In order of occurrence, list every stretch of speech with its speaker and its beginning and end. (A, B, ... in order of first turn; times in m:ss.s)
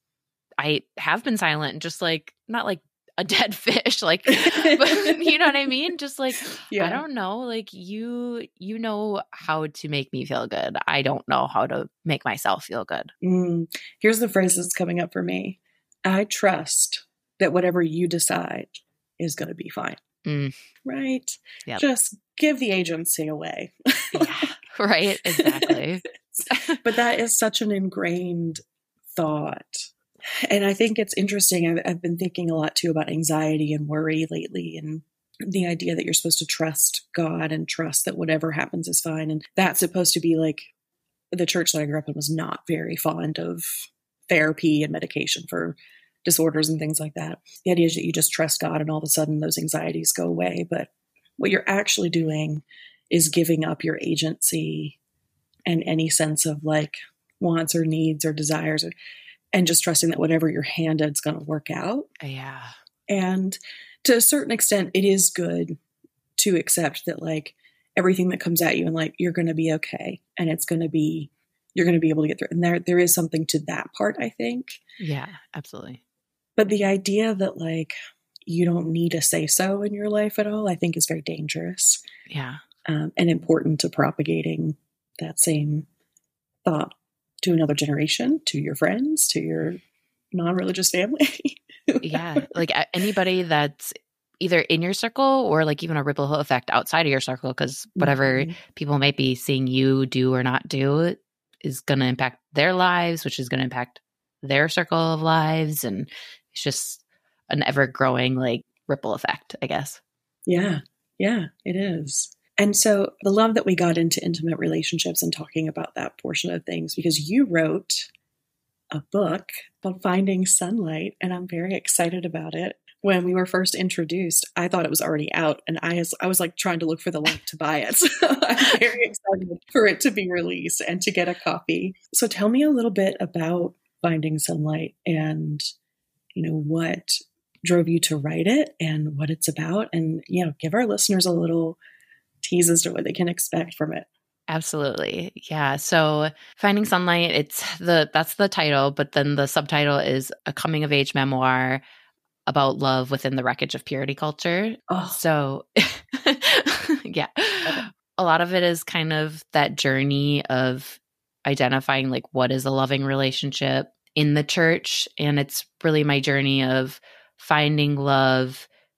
0:00.6-0:13.1 A
0:04.3-0:05.8 B
0:06.6-0:07.0 B
0:13.2-0:20.0 B
0:20.2-0:20.5 A
0:20.8-0:24.5 B
0:24.1-0:26.8 A
0:25.2-0:25.8 B
0:26.3-0:28.6 B
0:29.1-0:29.9 B
0:30.5-0:40.7 B
0:41.3-0:55.0 B
0:55.7-0:58.9 B
0:59.5-1:02.1 B
1:02.2-1:02.7 A
1:03.1-1:05.7 B
1:06.4-1:14.8 B
1:15.0-1:16.0 A
1:16.6-1:17.9 B
1:18.4-1:22.0 B
1:22.3-1:22.6 A
1:22.8-1:25.9 B
1:26.6-1:29.8 B
1:30.3-1:32.5 B
1:32.0-1:50.0 A
1:38.0-1:38.5 B
1:50.5-1:58.1 B
1:58.9-2:15.6 B
2:16.3-2:21.8 B
2:22.4-2:24.1 B
2:24.5-2:31.8 A
2:32.5-2:48.7 A
2:34.9-2:35.2 B